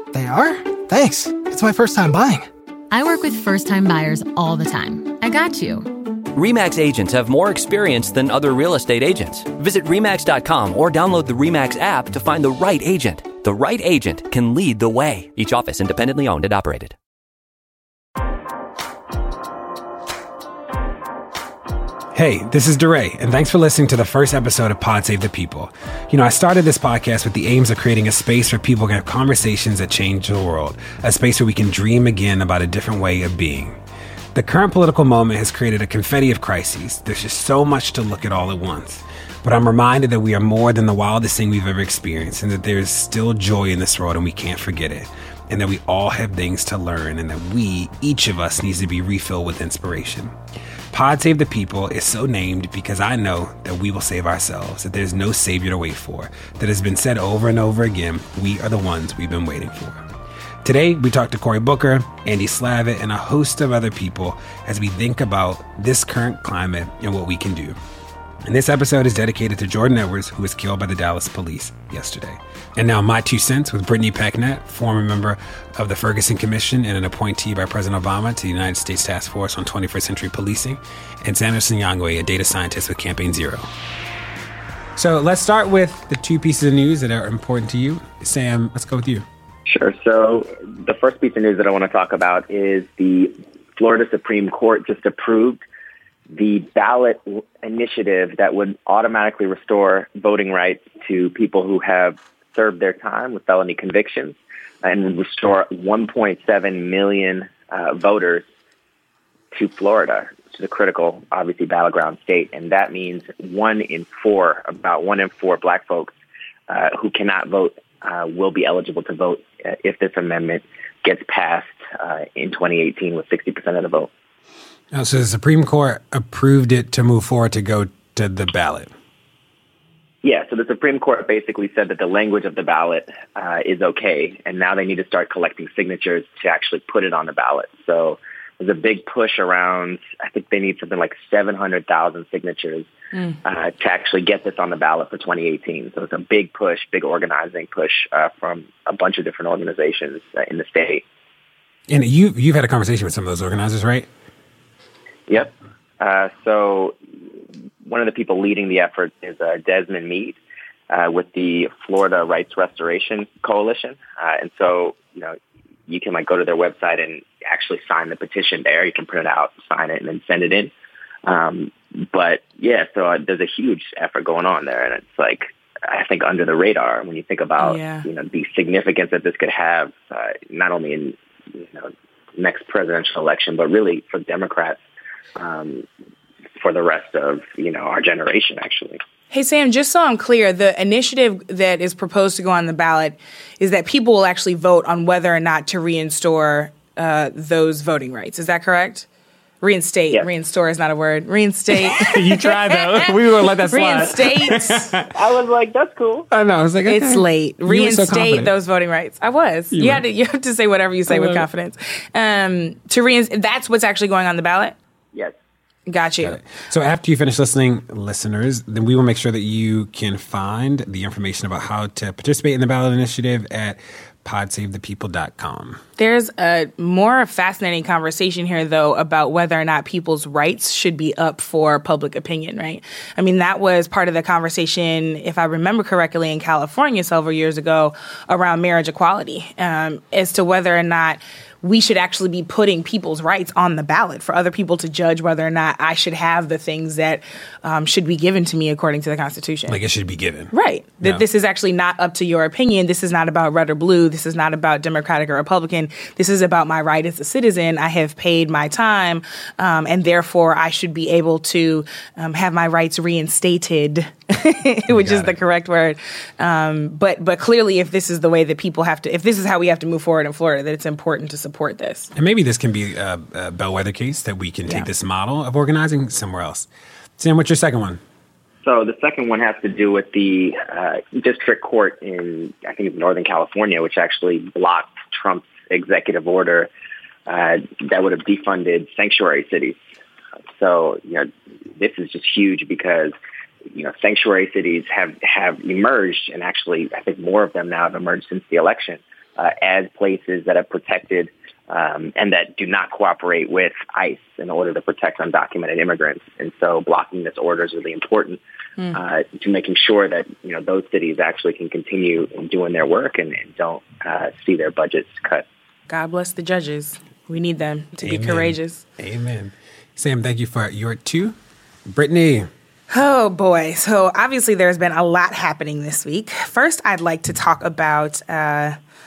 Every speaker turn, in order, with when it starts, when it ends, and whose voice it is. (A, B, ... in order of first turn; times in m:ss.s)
0:00.1-0:02.5 A
0:02.9-0:05.9 B
0:06.3-0:17.0 C
0:22.1-0:33.8 D
0:34.3-0:50.4 D
0:50.9-1:00.0 D
1:00.6-1:07.8 D
1:08.4-1:23.6 D
1:25.0-1:29.3 D
1:29.7-1:35.6 E
1:36.3-1:48.4 E
1:49.5-1:56.2 E
1:56.7-2:04.1 E
2:04.9-2:08.9 D
2:10.2-2:22.9 E
2:23.4-2:31.0 E
2:31.9-2:34.1 D
2:35.3-2:37.0 E
2:37.8-2:40.4 E
2:40.9-2:45.4 E
2:45.9-2:50.7 E
2:51.3-3:04.8 E
2:57.6-2:58.0 F
3:05.4-3:05.9 E
3:06.6-3:09.0 E
3:09.3-3:19.1 F
3:19.6-3:23.1 F
3:21.7-3:25.1 D
3:23.7-3:25.0 F
3:25.1-3:26.3 E
3:26.3-3:28.5 D
3:26.9-3:34.8 F
3:29.7-3:30.0 D
3:31.1-3:31.5 D
3:35.9-3:36.4 F
3:36.2-3:45.8 D
3:46.0-4:09.8 F
4:09.7-4:11.2 D
4:10.5-4:32.1 F
4:24.9-4:25.4 D
4:32.2-4:38.0 D
4:38.6-4:46.7 E
4:47.3-4:49.8 E
4:50.6-4:53.1 E
4:53.7-5:08.4 E
5:09.0-5:15.4 E
5:15.9-5:18.8 F
5:18.0-5:21.4 D
5:21.9-5:22.5 D
5:22.9-5:28.8 F